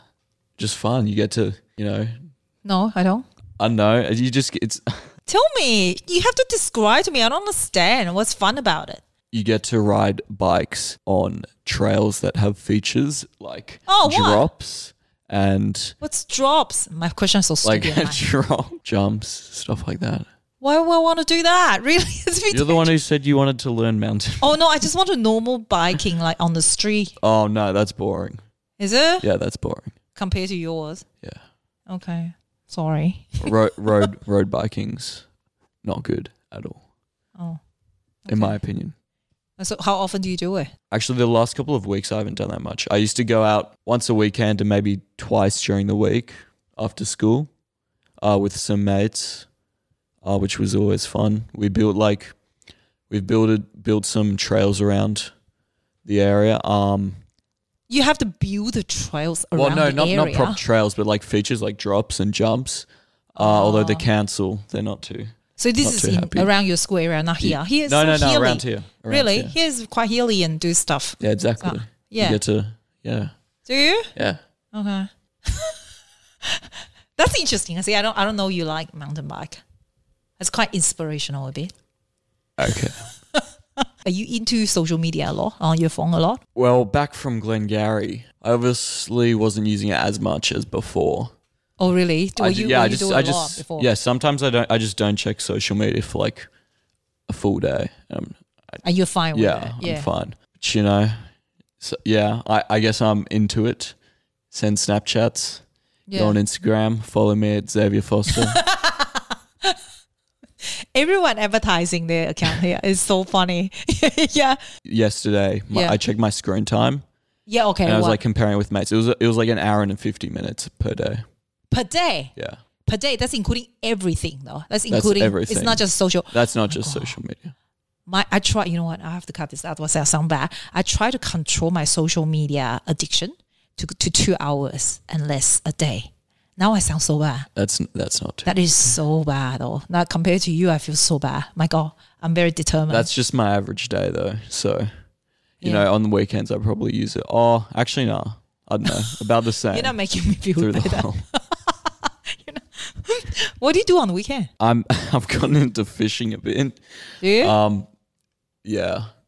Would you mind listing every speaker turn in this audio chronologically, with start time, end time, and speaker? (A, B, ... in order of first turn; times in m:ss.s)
0:00.6-0:02.1 A
0:02.6-0:03.3 B
0:03.6-0:05.0 A
0:05.3-0:09.0 B
0:09.3-0:16.0 A
0:13.9-0:14.5 B
0:16.0-0:18.3 B
0:17.6-0:20.3 A
0:20.6-0:22.9 B
0:22.5-0:24.7 A
0:24.4-0:27.2 B
0:27.2-0:28.4 A
0:28.8-0:29.3 B
0:29.2-0:29.9 A
0:30.2-0:31.0 B
0:31.9-0:34.1 B
0:33.4-0:35.3 A
0:35.8-0:36.8 A
0:38.3-0:38.6 B
0:38.3-0:38.9 A
0:39.6-0:40.7 B
0:40.9-0:47.5 A
0:48.2-0:49.5 A
0:50.2-0:52.3 A
0:53.1-0:55.3 A
0:56.0-0:57.2 A
0:57.9-1:00.6 B
0:59.6-1:06.5 A
1:03.4-1:04.1 B
1:05.6-1:12.4 B
1:07.4-1:09.6 A
1:11.2-1:13.3 A
1:13.7-1:14.1 B
1:14.2-1:14.4 A
1:14.7-1:15.8 B
1:17.2-1:19.6 B
1:20.4-1:21.7 B
1:22.6-1:23.0 A
1:24.0-1:26.4 B
1:26.6-1:31.3 A
1:31.8-1:33.9 B
1:32.4-1:36.5 A
1:37.3-1:38.8 A
1:38.8-1:40.1 B
1:39.3-1:41.2 A
1:41.8-1:44.0 A
1:44.5-1:45.6 A
1:46.1-1:46.4 B
1:46.1-1:48.6 A
1:48.3-1:49.8 B
1:50.9-1:54.6 B
1:54.8-1:57.0 A
1:55.7-1:56.0 B
1:57.5-1:58.2 B
1:57.8-2:01.2 A
2:01.7-2:02.3 B
2:02.9-2:07.2 B
2:04.9-2:07.5 A
2:08.1-2:17.5 B
2:17.6-2:18.6 A
2:18.4-2:23.1 B
2:22.9-2:24.9 A
2:25.6-2:30.0 A
2:25.6-2:25.9 B
2:28.9-2:29.2 B
2:29.7-2:31.8 B
2:30.6-2:31.3 A
2:32.3-2:34.5 B
2:34.6-2:37.9 A
2:37.2-2:37.6 B
2:38.6-2:39.1 A